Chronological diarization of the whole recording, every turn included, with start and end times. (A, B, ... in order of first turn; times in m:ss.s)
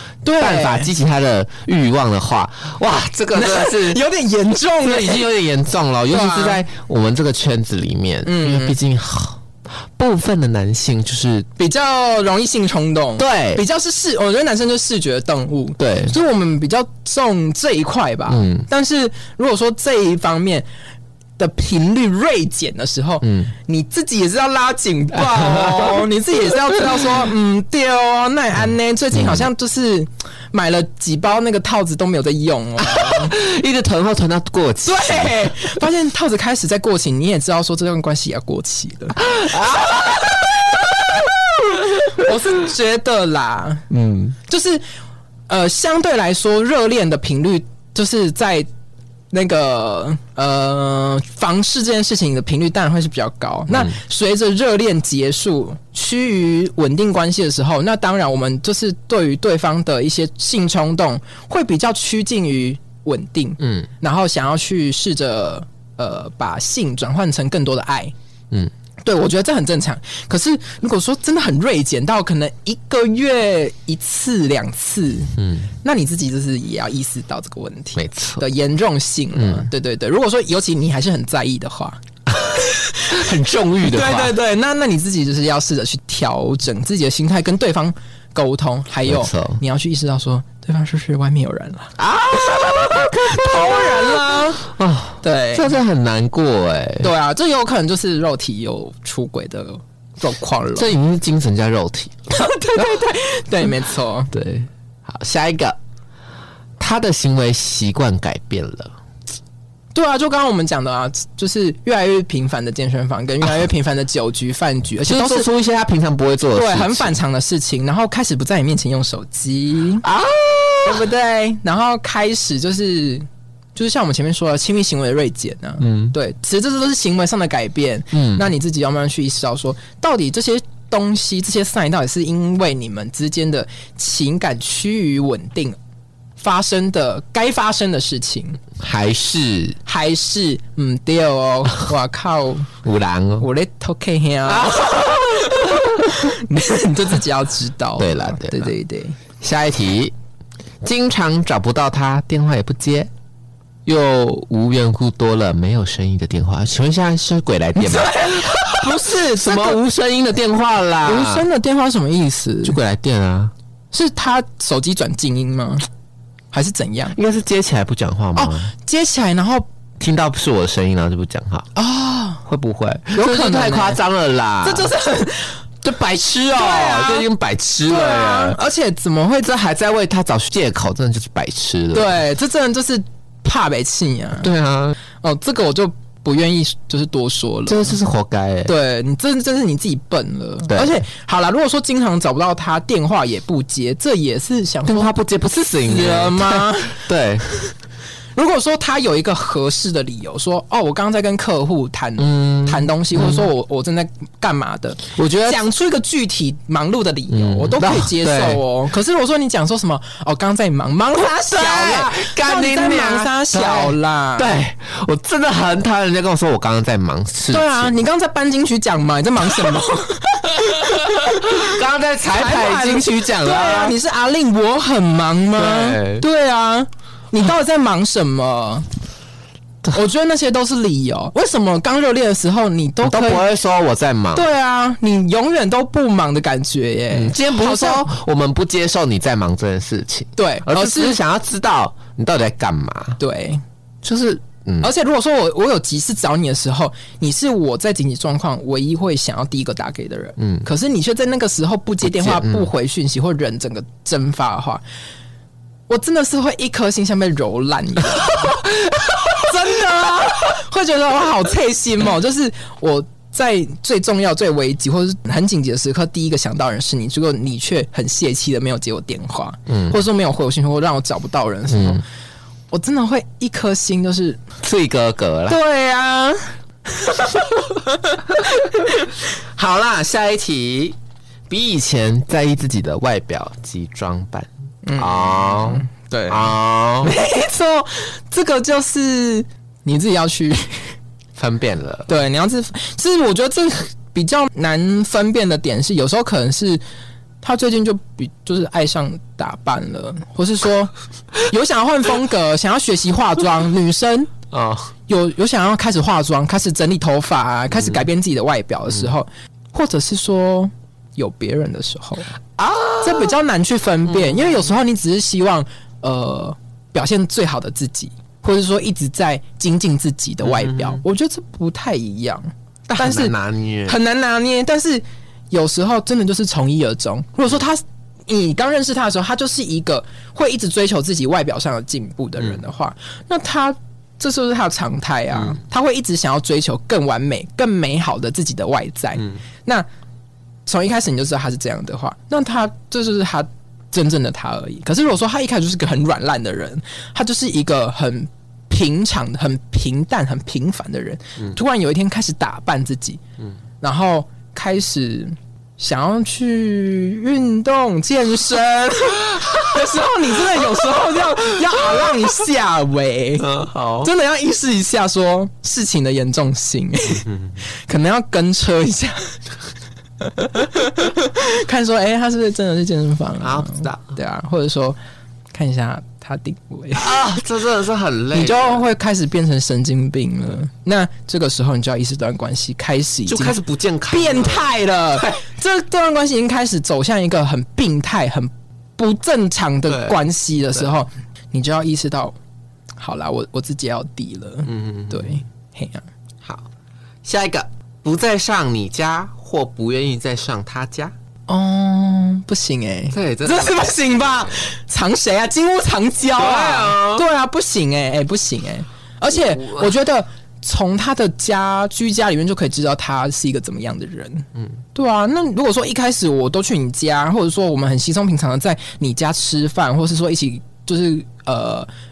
0:00.2-0:00.9 A
0:00.4-0:04.0 B
0:03.3-0:05.3 A
0:04.8-0:09.4 B
0:06.1-0:06.6 A
0:08.2-0:08.8 A
0:10.0-0:11.5 B
0:11.6-0:20.7 A
0:13.2-0:13.6 B
0:15.8-0:16.1 B
0:18.3-0:18.7 B
0:21.4-0:33.4 A
0:23.2-0:23.5 B
0:25.5-0:26.0 B
0:29.2-0:29.5 B
0:32.8-0:35.7 B
0:34.8-0:43.9 A
0:39.2-0:41.3 B
0:43.9-0:44.4 B
0:44.5-0:44.8 A
0:45.5-0:48.7 A
0:49.3-1:08.1 A
1:03.6-1:03.9 B
1:09.0-1:34.7 A
1:15.4-1:15.7 B
1:18.0-1:18.4 B
1:19.4-1:19.7 B
1:22.4-1:24.4 B
1:29.0-1:29.6 B
1:32.0-1:37.1 B
1:35.2-1:35.8 A
1:37.0-1:40.9 A
1:40.8-1:42.9 B
1:42.3-1:44.3 A
1:44.3-1:45.8 B
1:46.8-1:48.9 B
1:49.9-1:55.5 A
1:55.0-1:57.2 B
1:56.5-2:00.0 A
2:00.0-2:01.0 B
2:00.8-2:15.8 A
2:05.8-2:06.1 B
2:08.1-2:08.4 B
2:16.4-2:18.6 A
2:18.8-2:19.8 B
2:19.9-2:22.7 A
2:22.8-2:23.5 B
2:23.4-2:29.2 A
2:24.5-2:26.2 B
2:28.0-2:28.7 B
2:29.4-2:30.1 B
2:30.8-2:33.1 B
2:33.9-2:41.5 B
2:37.8-2:39.8 A
2:41.0-2:42.8 A
2:42.6-2:43.5 B
2:43.9-2:45.9 A
2:46.5-2:47.2 A
2:47.2-2:48.7 B
2:48.4-2:49.7 A
2:50.0-2:51.7 B
2:51.8-2:52.4 A
2:52.4-2:54.9 B
2:53.1-2:54.0 A
2:54.6-2:55.6 A
2:55.8-2:58.6 B
2:56.5-2:57.3 A
2:57.9-2:59.5 A
2:59.4-3:02.2 B
3:01.9-3:04.5 A
3:04.4-3:05.0 B
3:05.2-3:08.0 A
3:07.7-3:08.7 B
3:08.6-3:15.1 A
3:10.7-3:11.0 B
3:14.8-3:17.5 B
3:15.8-3:17.0 A
3:18.4-3:34.6 A
3:22.2-3:23.5 B
3:25.2-3:25.6 B
3:27.3-3:28.6 B
3:31.5-3:37.9 B
3:37.5-3:41.8 A
3:40.8-3:44.0 B
3:42.3-3:48.9 A
3:45.6-3:46.2 B
3:49.9-3:53.5 A
3:53.0-3:54.5 B
3:54.3-3:58.1 A
3:57.1-4:03.2 B
4:00.4-4:01.2 A
4:03.2-4:03.6 A
4:04.0-4:04.9 B
4:04.8-4:14.8 A
4:10.4-4:10.7 B
4:12.0-4:12.7 B
4:15.9-4:18.6 A
4:18.3-4:19.4 B
4:19.2-4:32.0 A
4:29.7-4:30.0 B
4:31.7-4:32.0 B
4:32.7-4:34.4 A
4:34.6-4:35.6 B
4:35.5-4:39.1 A
4:39.3-4:41.0 B
4:41.5-4:47.1 B
4:44.8-4:51.0 A
4:51.4-4:52.1 B
4:52.1-4:56.8 A
4:57.4-5:04.3 A
5:04.5-5:04.9 B
5:05.1-5:12.3 A
5:07.8-5:08.0 B
5:12.6-5:13.3 B
5:13.0-5:23.4 A
5:14.1-5:14.6 B
5:20.4-5:21.0 B
5:22.9-5:24.0 B
5:23.9-5:39.9 A
5:40.7-5:53.2 A
5:53.8-6:07.3 A
6:01.8-6:02.0 B
6:03.4-6:04.1 B
6:07.9-6:09.4 A
6:10.2-6:15.0 A
6:13.4-6:14.1 B
6:15.5-6:17.4 A
6:16.9-6:18.8 B
6:18.3-6:23.6 A
6:23.3-6:25.4 B
6:24.1-6:32.4 A
6:29.9-6:30.2 B
6:33.0-6:36.0 A
6:34.7-6:35.3 B
6:36.4-6:36.7 B
6:37.2-6:41.1 B
6:41.5-7:01.9 A
6:43.1-6:43.9 B
6:46.3-6:47.2 B
6:49.3-6:49.9 B